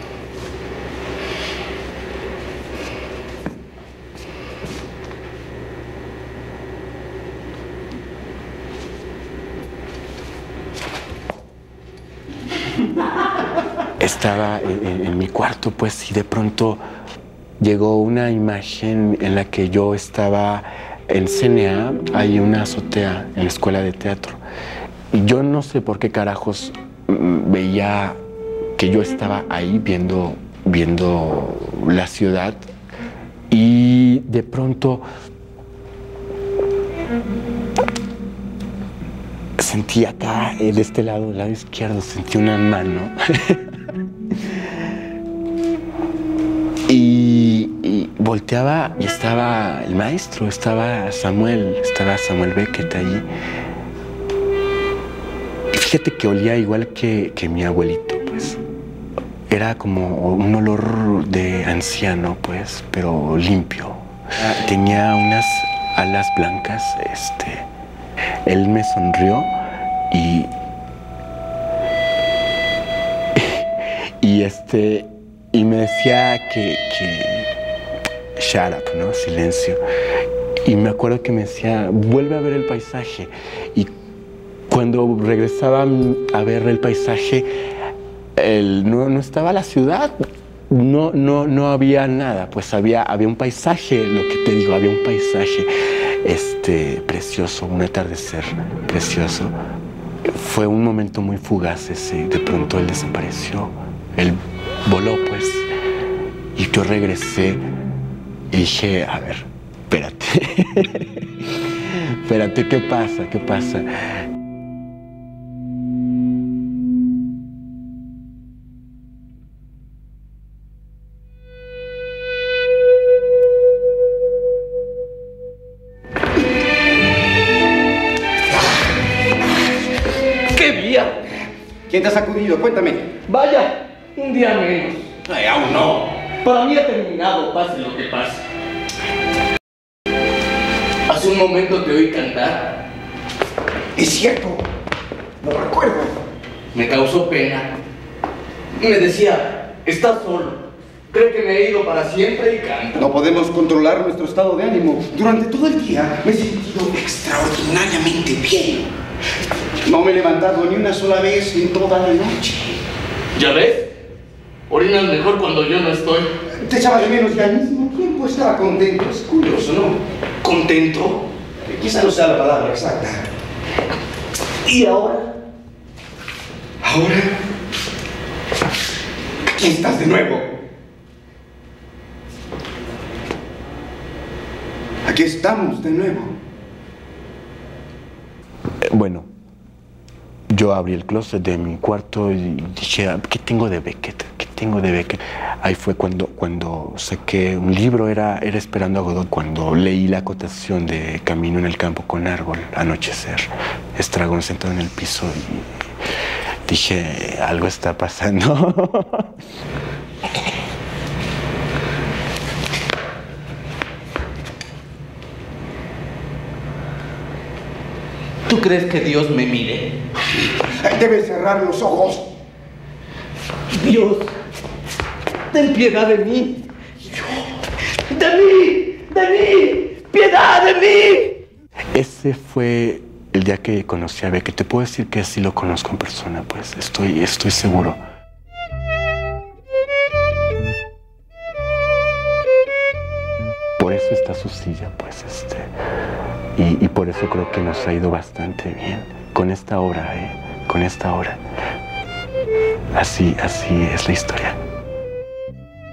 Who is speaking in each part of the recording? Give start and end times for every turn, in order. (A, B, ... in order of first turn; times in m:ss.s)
0:14.0-0:16.8 A
0:17.6-0:24.4 A
0:25.1-0:28.2 A
0:28.8-0:32.6 A
0:33.5-0:35.0 A
0:39.6-0:43.7 A
0:46.9-0:53.3 A
0:55.7-0:58.6 A
0:59.5-1:07.7 A
1:08.4-1:09.5 A
1:10.1-1:10.5 A
1:13.3-1:13.6 A
1:14.2-1:17.5 A
1:18.4-1:19.8 A
1:20.6-1:23.9 A
1:24.7-1:27.5 A
1:28.4-1:30.2 A
1:30.7-1:35.7 A
1:36.2-1:39.6 A
1:40.2-1:45.7 A
1:46.5-1:47.6 A
1:48.5-1:54.2 A
2:10.5-2:11.2 B
2:11.9-2:13.1 C
2:13.3-2:15.1 B
2:15.3-2:16.0 C
2:16.3-2:18.4 B
2:21.1-2:22.7 B
2:24.0-2:24.6 C
2:25.4-2:26.1 C
2:26.7-2:27.7 B
2:28.8-2:33.0 B
2:33.0-2:38.9 C
2:39.8-2:42.8 C
2:43.3-2:43.9 B
2:44.7-2:46.3 B
2:46.6-2:50.0 C
2:50.4-2:51.2 B
2:51.6-2:53.2 C
2:54.6-2:55.3 B
2:56.8-2:57.3 C
2:59.4-3:00.5 C
3:05.0-3:06.4 C
3:08.8-3:09.3 A
3:10.5-3:25.7 A
3:26.6-3:29.3 A
3:38.5-3:39.9 B
3:40.6-3:42.3 C
3:43.7-3:44.3 B
3:45.5-3:47.4 B
3:48.1-3:51.4 B
3:51.9-3:58.0 A
4:03.8-4:05.7 A
4:06.5-4:11.4 A
4:12.9-4:14.6 A